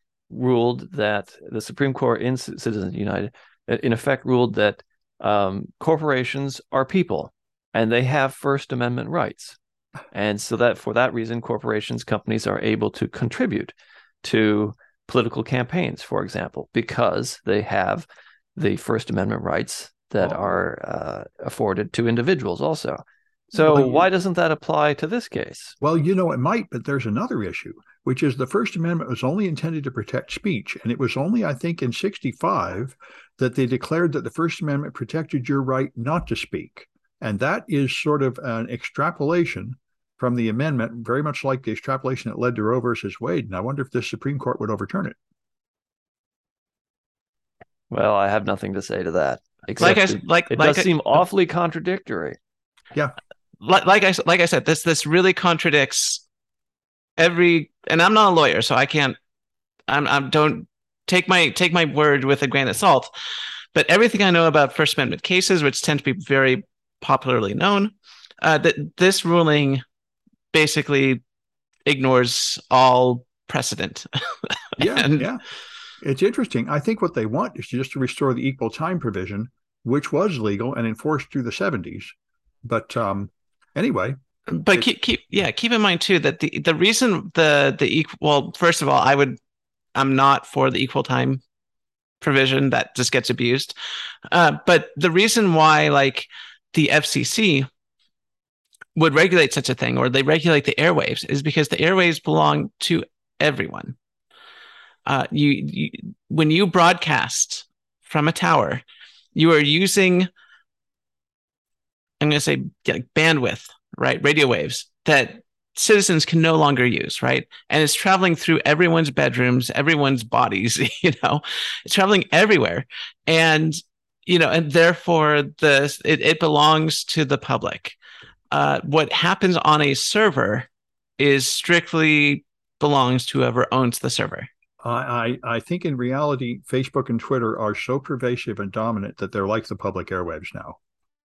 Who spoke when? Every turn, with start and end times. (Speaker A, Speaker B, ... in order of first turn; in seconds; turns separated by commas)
Speaker A: 0.3-9.6, Speaker A: 10.1-23.0, Speaker A: 23.5-25.8, Speaker B: 23.5-24.1, Speaker B: 25.8-45.1, Speaker A: 47.9-52.4, Speaker C: 49.8-50.9, Speaker C: 53.6-56.2, Speaker C: 57.2-59.2, Speaker C: 59.9-63.1, Speaker C: 63.7-69.8, Speaker C: 70.5-71.2, Speaker C: 71.8-75.3, Speaker B: 74.8-75.4, Speaker B: 76.0-82.1, Speaker B: 82.6-84.2, Speaker C: 84.5-89.4, Speaker C: 90.0-91.4, Speaker C: 92.2-93.8, Speaker C: 94.3-97.7, Speaker C: 99.0-104.0, Speaker C: 105.0-108.8, Speaker C: 109.3-110.3, Speaker C: 112.2-128.0, Speaker C: 128.5-130.7, Speaker C: 131.2-134.5, Speaker B: 134.8-140.8